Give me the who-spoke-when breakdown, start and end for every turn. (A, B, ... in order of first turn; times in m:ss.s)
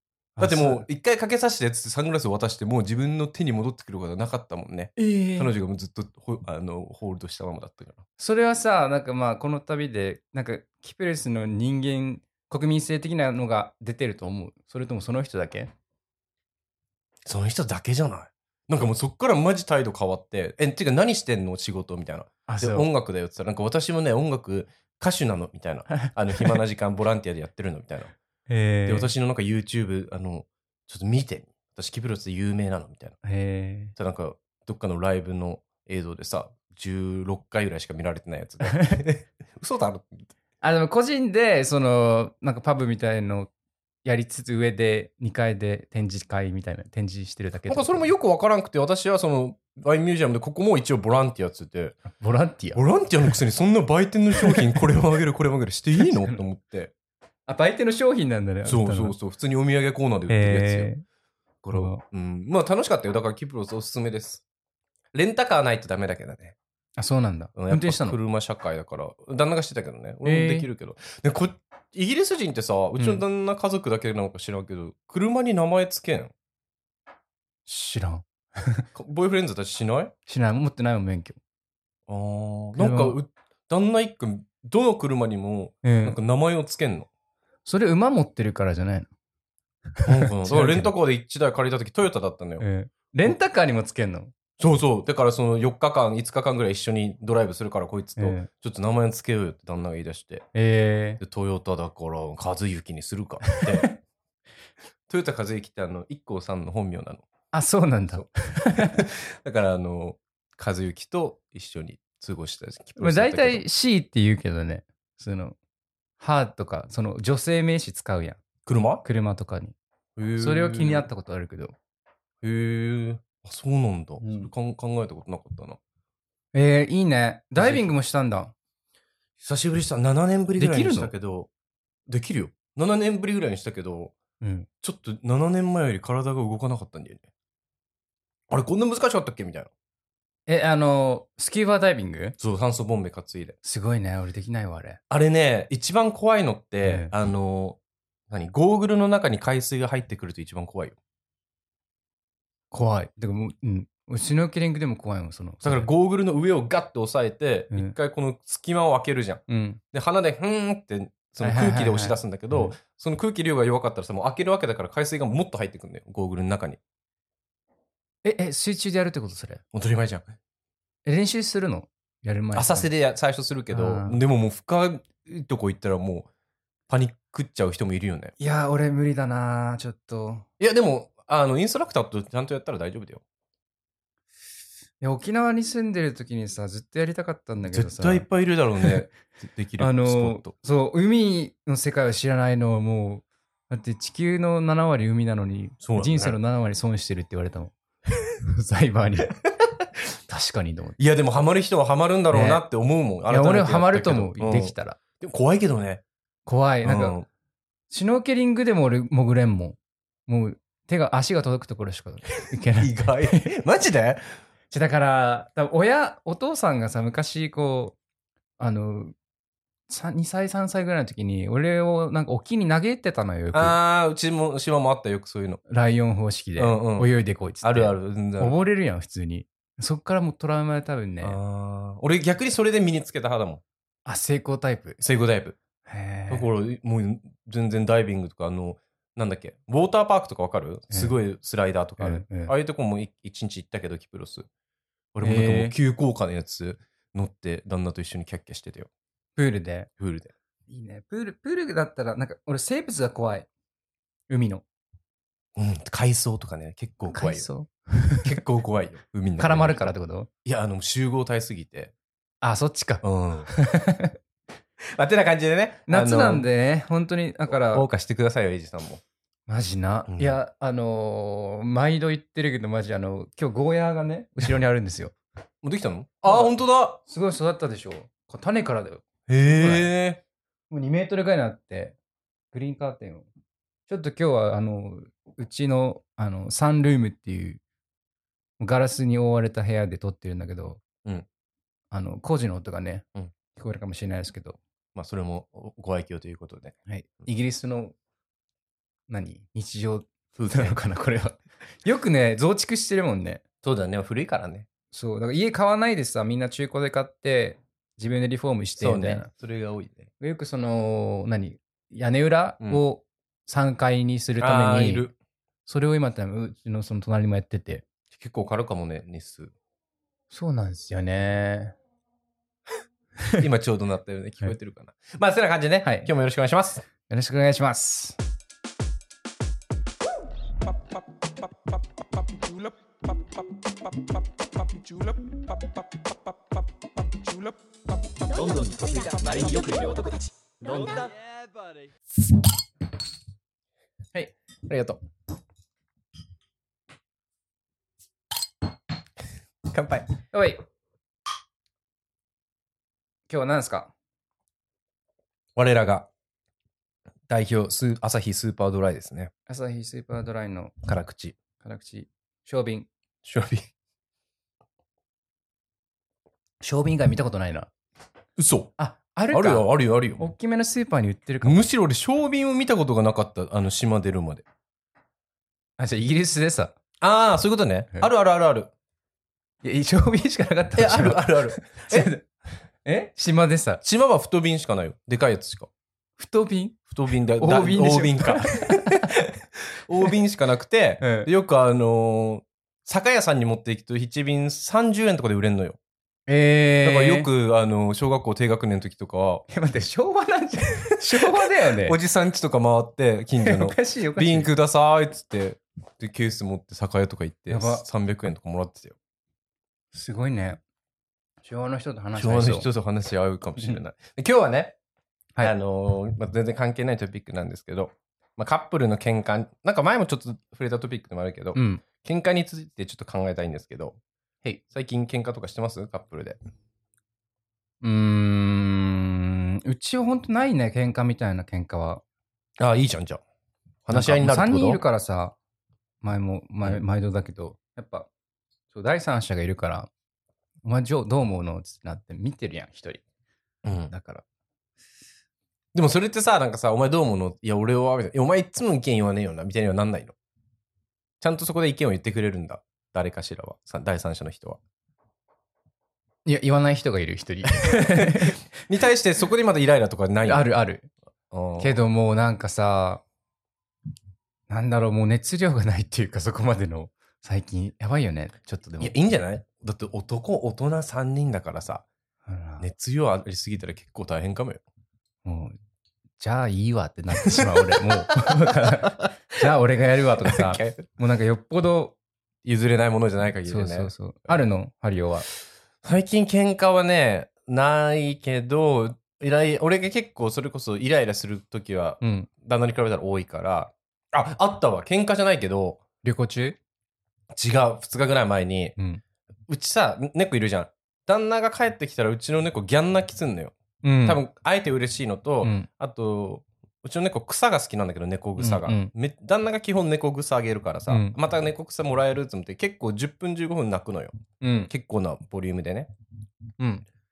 0:00.4-0:00.8 A
0:00.4-0:08.0 B
0:05.0-0:05.5 A
0:08.2-0:15.7 A
0:17.3-0:28.1 B
0:22.5-0:22.9 A
0:26.0-0:26.6 A
0:28.5-0:29.1 A
0:28.9-0:33.2 B
0:33.2-0:33.9 A
0:34.0-0:40.3 B
0:38.6-0:39.0 A
0:40.6-0:43.5 A
0:44.0-0:48.0 A
0:47.7-0:52.0 B
0:52.1-0:52.8 A
0:52.8-0:56.9 B
0:54.4-0:54.7 A
0:56.0-0:56.4 A
0:57.5-0:59.2 A
0:58.6-1:00.9 B
1:00.3-1:01.0 A
1:01.6-1:04.4 B
1:01.7-1:02.0 A
1:05.1-1:06.6 B
1:07.0-1:08.2 A
1:07.6-1:16.3 B
1:10.2-1:10.7 A
1:13.0-1:13.2 A
1:17.7-1:18.8 A
1:18.9-1:20.1 B
1:20.3-1:21.4 A
1:22.1-1:27.1 B
1:22.8-1:23.2 A
1:25.8-1:26.2 A
1:27.7-1:29.1 A
1:30.0-1:30.9 A
1:30.0-1:32.6 B
1:32.6-1:34.3 A
1:34.6-1:40.5 B
1:38.2-1:38.5 A
1:40.5-1:41.2 A
1:41.2-1:43.9 B
1:43.5-1:43.9 A
1:45.1-1:47.2 B
1:47.5-1:49.0 A
1:48.8-1:53.6 B
1:53.0-1:55.6 A
1:56.2-1:58.4 A
1:58.7-1:59.0 B
1:59.0-1:59.8 A
2:00.2-2:01.1 B
2:00.4-2:01.7 A
2:02.4-2:05.8 B
2:04.2-2:04.5 A
2:06.5-2:08.5 A
2:07.6-2:07.9 B
2:09.4-2:11.5 B
2:10.6-2:11.1 A
2:12.1-2:14.1 B
2:14.4-2:14.7 A
2:14.8-2:17.2 B
2:18.5-2:19.7 B
2:20.5-2:22.4 A
2:22.4-2:23.6 B
2:23.6-2:25.0 A
2:25.1-2:27.8 B
2:26.8-2:27.1 A
2:28.3-2:31.0 B
2:32.7-2:35.9 A
2:35.6-2:46.8 B
2:39.5-2:39.8 A
2:41.4-2:42.8 A
2:48.2-2:49.6 A
2:49.7-2:50.3 B
2:51.0-2:52.9 A
2:52.6-2:56.3 B
2:53.7-2:54.2 A
2:56.9-2:58.4 B
2:58.4-3:00.5 A
3:00.6-3:03.2 B
3:05.0-3:08.3 A
3:07.7-3:10.5 B
3:09.8-3:17.7 A
3:15.8-3:16.4 B
3:18.4-3:19.4 A
3:19.3-3:19.8 B
3:20.3-3:21.0 A
3:21.0-3:26.0 B
3:22.3-3:22.6 A
3:23.3-3:25.0 A
3:26.5-3:27.2 A
3:26.8-3:27.3 B
3:27.9-3:33.5 A
3:32.8-3:34.2 B
3:34.7-3:38.0 A
3:38.6-3:39.2 A
3:39.9-3:43.8 A
3:43.5-3:45.6 B
3:45.7-3:51.4 A
3:46.6-3:47.1 B
3:47.6-3:48.6 B
3:51.2-3:53.6 B
3:54.1-3:55.0 A
3:55.0-3:55.6 B
3:55.9-3:56.5 A
3:56.3-4:04.5 B
4:00.9-4:01.2 A
4:02.0-4:02.5 A
4:05.1-4:08.9 B
4:05.2-4:05.8 A
4:09.4-4:09.9 A
4:10.0-4:10.3 B
4:10.7-4:13.5 A
4:14.3-4:14.6 A
4:15.6-4:17.5 B
4:17.1-4:18.4 A
4:18.2-4:19.9 B
4:19.4-4:20.3 A
4:20.4-4:21.9 B
4:22.4-4:24.1 A
4:23.0-4:23.5 B
4:24.8-4:26.4 B
4:25.9-4:27.9 A
4:27.5-4:29.0 B
4:29.5-4:35.2 A
4:30.1-4:30.4 B
4:35.6-4:37.0 B
4:36.3-4:39.9 A
4:39.3-4:40.2 B
4:40.7-4:42.0 A
4:42.5-4:43.3 A
4:43.9-4:47.6 A
4:48.6-4:50.8 A
4:51.9-4:54.6 A
4:55.0-4:57.3 B
4:56.9-4:57.9 A
4:59.1-5:03.4 A
5:00.4-5:00.8 B
5:03.6-5:04.7 B
5:04.9-5:09.3 A
5:08.8-5:10.1 B
5:10.2-5:15.1 A
5:14.4-5:15.1 B
5:15.7-5:17.8 A
5:18.1-5:19.5 B
5:20.3-5:21.8 A
5:23.4-5:26.8 B
5:25.8-5:26.1 A
5:27.1-5:28.2 A
5:38.3-5:41.2 C
5:44.7-5:45.0 B
5:49.7-5:50.1 B
5:50.3-5:50.6 A
5:53.3-5:53.9 A
5:55.6-5:56.1 B
5:57.3-5:59.3 B
5:59.5-6:00.8 A
6:00.8-6:01.4 B
6:01.6-6:02.9 A
6:03.2-6:03.7 B
6:06.6-6:07.7 A
6:08.4-6:08.7 B
6:08.8-6:11.6 A
6:09.3-6:10.3 B
6:11.4-6:14.4 B
6:15.8-6:16.7 A
6:17.0-6:18.7 B
6:19.6-6:22.3 A
6:20.8-6:22.1 B
6:22.8-6:23.8 A
6:23.8-6:25.7 B
6:26.2-6:26.8 A
6:26.9-6:35.8 B
6:27.4-6:29.1 A
6:31.0-6:31.3 A
6:36.3-6:37.3 A
6:36.8-6:39.4 B
6:39.5-6:42.0 A
6:41.1-6:49.0 B
6:43.4-6:44.5 A
6:47.5-6:47.8 A
6:49.9-6:50.6 A
6:51.4-6:52.7 A
6:52.2-6:54.8 B
6:55.4-7:04.0 B
7:01.6-7:01.8 A
7:04.7-7:06.4 B
7:07.8-7:12.0 A
7:12.6-7:13.2 B
7:13.9-7:14.8 B
7:13.9-7:15.4 A
7:16.0-7:18.1 A
7:18.7-7:19.9 A
7:20.6-7:23.0 A
7:23.6-7:23.9 B
7:23.9-7:24.2 A
7:25.7-7:30.2 B
7:31.2-7:34.6 B
7:36.2-7:38.4 A
7:37.6-7:40.5 B
7:40.3-7:40.9 A
7:41.3-7:41.8 B
7:41.6-7:43.0 A
7:44.5-7:48.9 A
7:48.8-7:51.8 B
7:52.3-7:52.7 A
7:52.6-7:54.6 B
7:55.2-7:55.6 A
7:56.2-8:02.0 A
7:57.3-7:59.1 B
8:00.2-8:00.9 B
8:02.4-8:04.4 B
8:03.5-8:05.3 A
8:05.8-8:15.8 B
8:12.0-8:12.3 A
8:16.0-8:16.6 A
8:17.3-8:18.8 B
8:19.5-8:34.2 B
8:23.8-8:24.2 A
8:25.4-8:25.7 A
8:28.4-8:28.9 A
8:30.9-8:31.2 A
8:34.4-8:34.7 A
8:34.7-8:35.9 B
8:36.6-8:36.8 A